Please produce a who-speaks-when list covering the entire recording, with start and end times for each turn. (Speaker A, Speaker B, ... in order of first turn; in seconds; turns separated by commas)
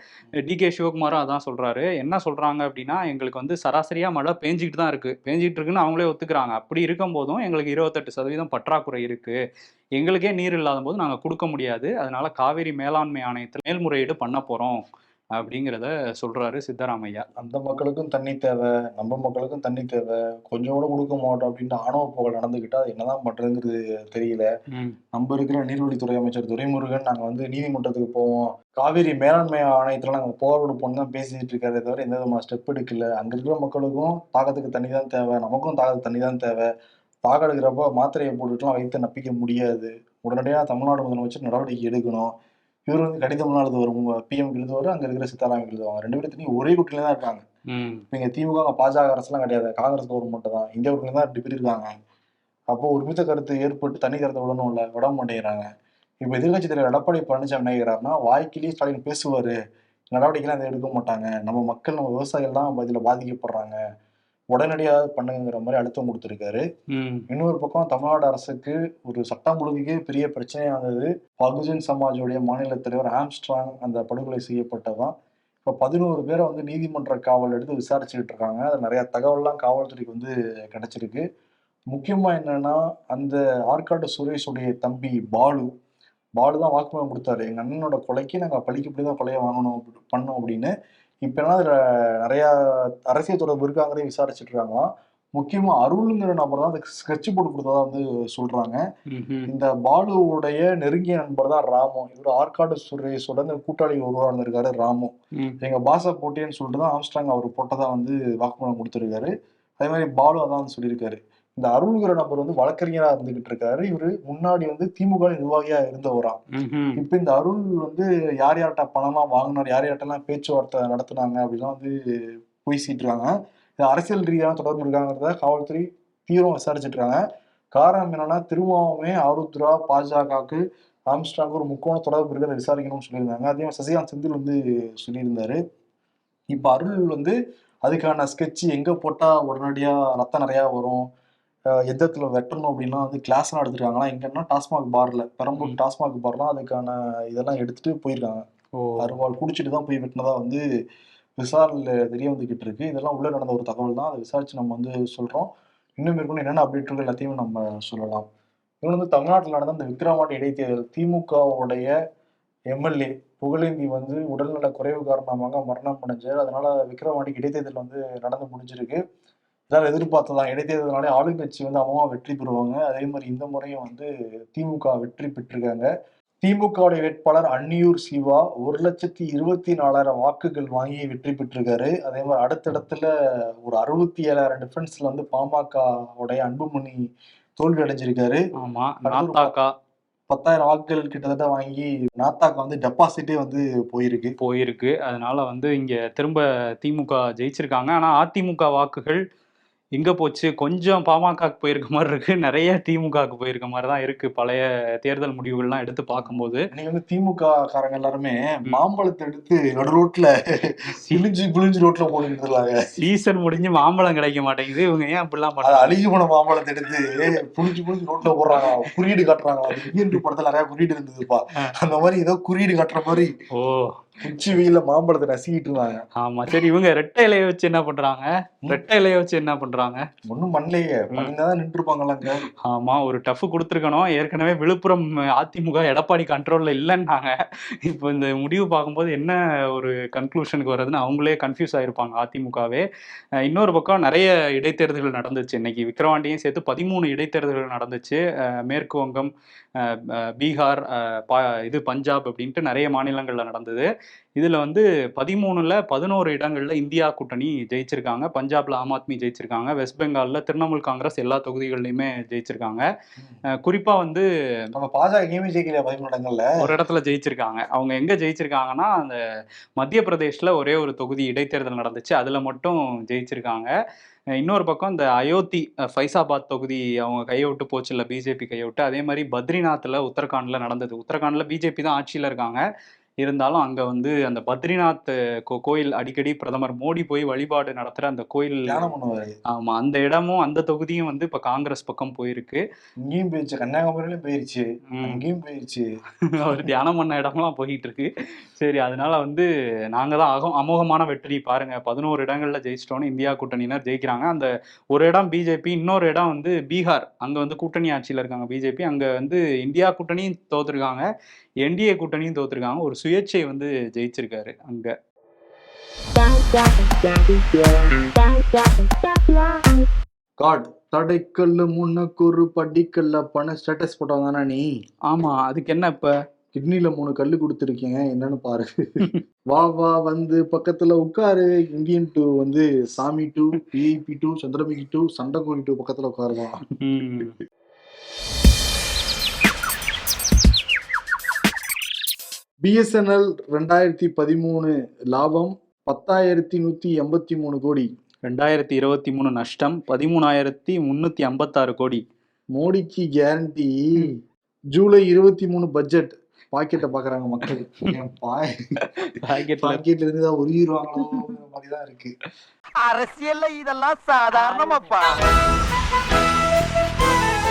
Speaker A: 0.4-9.4, Speaker A: 10.0-14.8, Speaker A: 15.4-17.2, Speaker B: 17.4-24.5, Speaker B: 25.1-36.7, Speaker B: 37.2-42.3, Speaker B: 42.9-47.4, Speaker A: 47.7-48.0, Speaker B: 48.1-51.9, Speaker B: 52.7-55.7, Speaker B: 56.2-59.6, Speaker B: 60.1-63.8, Speaker B: 64.5-66.6, Speaker A: 66.9-67.2, Speaker B: 67.3-75.1, Speaker B: 75.6-81.2, Speaker B: 81.9-85.7, Speaker B: 86.4-90.7, Speaker B: 91.2-94.8, Speaker B: 95.3-98.8, Speaker A: 99.1-99.5, Speaker B: 99.5-116.4, Speaker A: 116.5-117.0, Speaker B: 117.0-121.9, Speaker B: 122.6-127.2, Speaker B: 127.7-135.6, Speaker B: 136.5-141.1, Speaker B: 141.9-148.4, Speaker A: 148.8-149.1, Speaker B: 149.0-150.6, Speaker B: 151.4-158.2, Speaker B: 158.8-161.9, Speaker B: 162.7-169.0, Speaker B: 169.7-175.9, Speaker B: 176.4-183.1, Speaker B: 183.6-187.0, Speaker B: 187.6-188.4, Speaker A: 188.6-189.7, Speaker B: 189.0-189.5, Speaker B: 190.3-194.3, Speaker A: 194.4-199.2, Speaker A: 199.9-206.7, Speaker B: 206.1-210.3, Speaker A: 210.9-211.2, Speaker B: 211.1-212.8, Speaker A: 212.9-215.9, Speaker B: 215.6-223.3, Speaker A: 218.5-219.1, Speaker A: 219.7-220.2, Speaker A: 223.6-223.9, Speaker B: 224.2-226.0, Speaker A: 226.2-230.0, Speaker B: 230.3-232.4, Speaker A: 232.3-242.9, Speaker A: 243.4-262.9, Speaker A: 263.6-264.2, Speaker B: 264.7-266.5, Speaker A: 266.6-269.2, Speaker A: 269.8-273.7, Speaker A: 274.4-282.6, Speaker A: 283.2-288.9, Speaker B: 288.6-289.4, Speaker A: 289.5-292.6, Speaker B: 293.0-295.9, Speaker A: 294.9-295.2, Speaker A: 296.3-311.1, Speaker A: 311.6-314.9, Speaker B: 320.4-324.6, Speaker A: 325.1-326.1, Speaker B: 326.5-328.7, Speaker B: 329.5-336.6, Speaker A: 336.8-337.4, Speaker B: 342.6-347.9, Speaker A: 348.3-352.0, Speaker B: 352.6-354.1, Speaker B: 354.7-358.5, Speaker A: 358.8-359.8, Speaker B: 359.6-362.1, Speaker A: 361.0-361.3, Speaker C: 362.8-365.2, Speaker A: 364.3-365.0